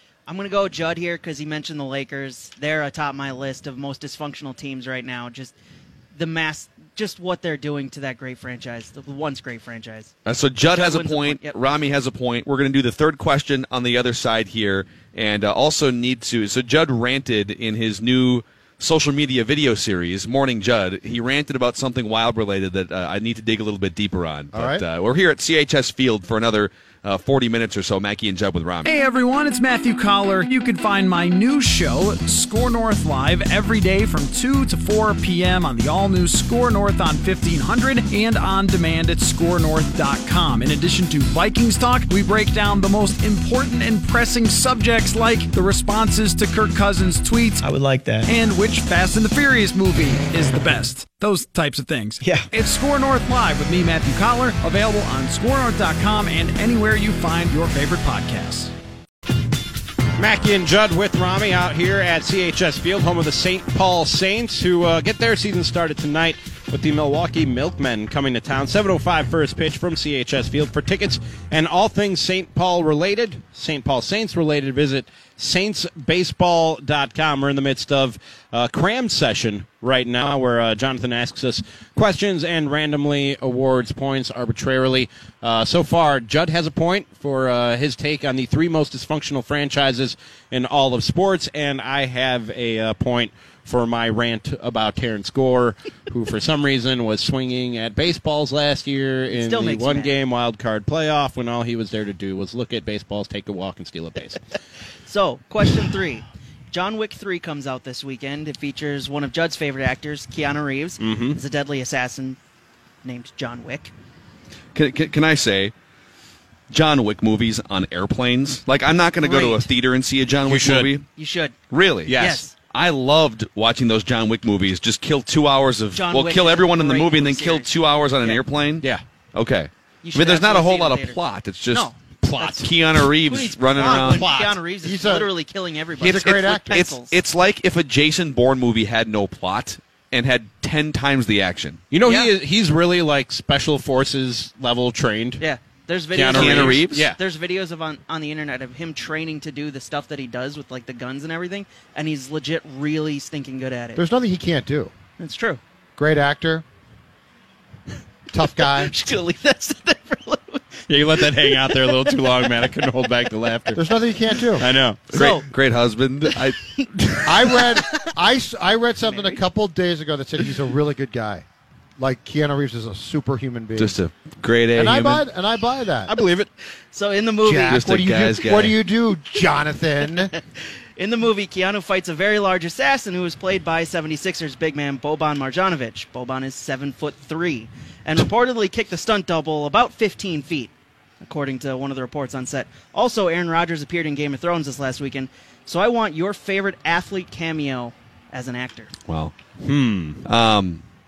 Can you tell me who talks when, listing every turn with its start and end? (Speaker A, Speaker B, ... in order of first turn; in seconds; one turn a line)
Speaker A: 0.3-5.5
Speaker A: 6.1-11.5
Speaker B: 10.2-29.0
Speaker C: 24.5-24.8
Speaker D: 28.8-47.7
Speaker D: 48.2-58.7
Speaker E: 60.2-104.4
Speaker A: 99.3-100.1
Speaker A: 105.1-112.4
Speaker E: 111.0-111.4
Speaker A: 113.0-113.9
Speaker B: 114.7-115.7
Speaker B: 116.7-121.0
Speaker A: 119.2-119.7
Speaker E: 120.5-120.9
Speaker A: 121.2-121.5
Speaker B: 121.7-131.9
Speaker E: 122.1-122.5
Speaker A: 122.1-122.5
Speaker A: 125.9-128.4
Speaker A: 130.0-131.2
Speaker A: 131.7-137.1
Speaker E: 132.2-132.7
Speaker B: 132.6-134.3
Speaker E: 133.9-134.6
Speaker C: 134.8-135.3
Speaker C: 136.0-136.8
Speaker B: 136.0-141.8
Speaker E: 141.9-145.4
Speaker A: 142.0-142.3
Speaker A: 145.4-154.0
Speaker E: 146.1-147.2
Speaker B: 146.3-147.0
Speaker C: 153.9-154.9
Speaker A: 155.2-155.6
Speaker C: 156.0-156.6
Speaker C: 158.3-158.9
Speaker A: 158.6-161.9
Speaker E: 160.9-163.8
Speaker C: 163.7-164.6
Speaker E: 164.6-165.0
Speaker A: 165.1-165.5
Speaker B: 165.1-166.6
Speaker A: 166.4-168.0
Speaker C: 167.2-171.4
Speaker A: 169.1-169.4
Speaker C: 172.0-174.0
Speaker B: 173.8-175.2
Speaker C: 174.7-176.1
Speaker E: 176.1-176.5
Speaker A: 176.9-177.8
Speaker C: 177.4-180.3
Speaker B: 177.7-178.7
Speaker A: 180.9-198.9
Speaker B: 199.1-199.3
Speaker E: 199.6-200.2
Speaker B: 200.2-200.8